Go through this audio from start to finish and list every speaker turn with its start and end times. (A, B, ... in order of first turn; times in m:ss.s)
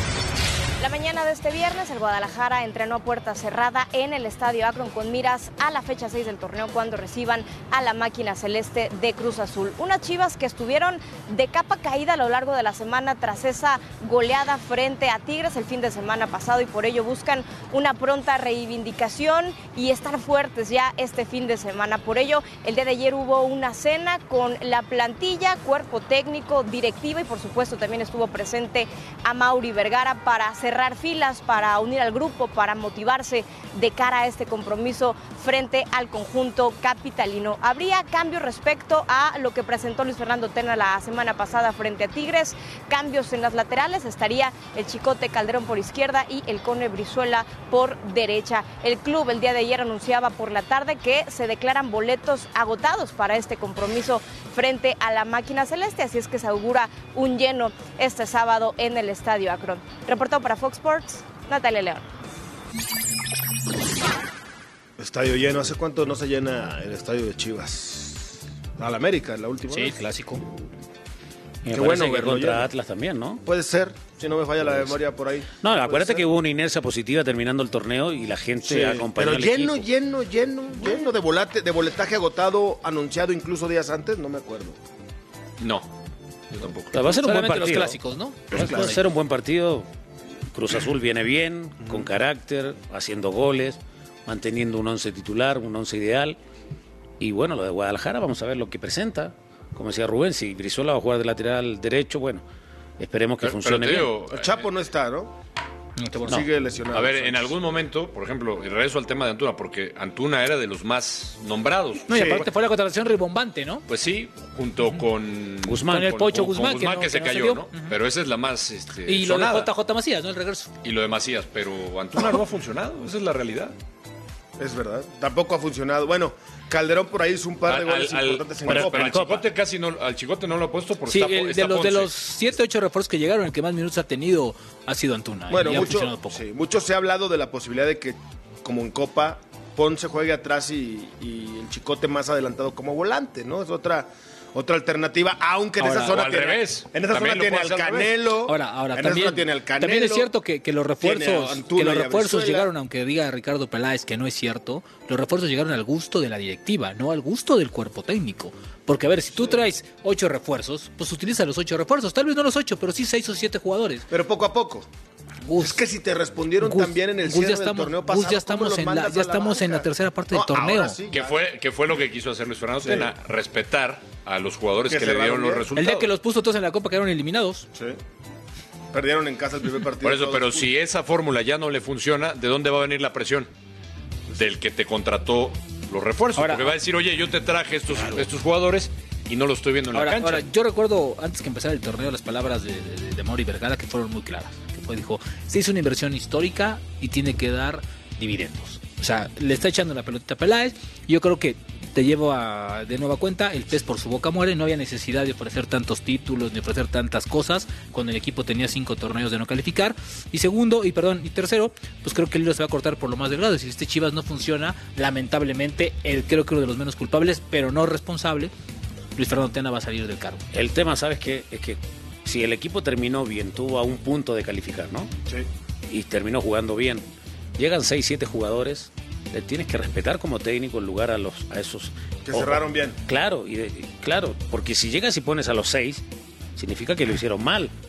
0:00.8-1:02.0 A
1:05.0-1:10.0 B
1:09.7-1:10.4 C
1:11.6-1:13.4 D
1:11.7-1:12.7 B
1:13.4-1:16.3 B
1:14.6-1:15.0 D
1:15.6-1:19.9 D
1:18.6-1:24.8 B
1:25.6-1:25.9 E
1:26.5-1:27.0 E
1:26.9-1:28.0 D
1:27.0-1:29.0 C
1:28.5-1:29.9 D
1:28.5-1:29.0 B
1:30.5-1:36.4 D
1:31.8-1:32.1 B
1:37.2-1:42.4 D
1:43.0-1:44.2 D
1:43.4-1:44.7 E
1:44.3-1:45.3 B
1:46.0-1:46.4 C
1:46.3-1:47.6 B
1:46.9-1:52.4 E
1:52.1-1:53.8 C
1:52.1-1:52.4 B
1:53.9-1:59.7 E
1:55.7-1:56.1 D
1:55.9-1:57.9 C
1:59.1-2:00.7 C
2:00.8-2:03.8 E
2:04.6-2:09.3 B
2:07.7-2:12.1 E
2:08.7-2:09.4 D
2:11.1-2:16.4 C
2:15.5-2:30.3 B
2:25.8-2:26.2 C
2:26.0-2:28.2 E
2:28.5-2:44.1 C
2:31.0-2:32.7 B
2:44.1-2:44.9 B
2:45.5-2:45.8 C
2:45.6-2:51.4 B
2:46.6-2:51.0 C
2:51.1-2:56.1 E
2:52.8-2:53.1 B
2:54.9-2:55.7 B
2:55.8-2:57.7 C
2:58.9-3:00.7 B
3:00.0-3:03.5 E
3:04.4-3:10.5 E
3:06.4-3:06.7 C
3:09.9-3:38.5 C
3:39.2-3:40.4 C
3:40.5-3:45.1 D
3:45.9-3:47.0 D
3:47.6-3:56.0 D
3:52.3-3:53.0 B
3:56.6-3:57.7 D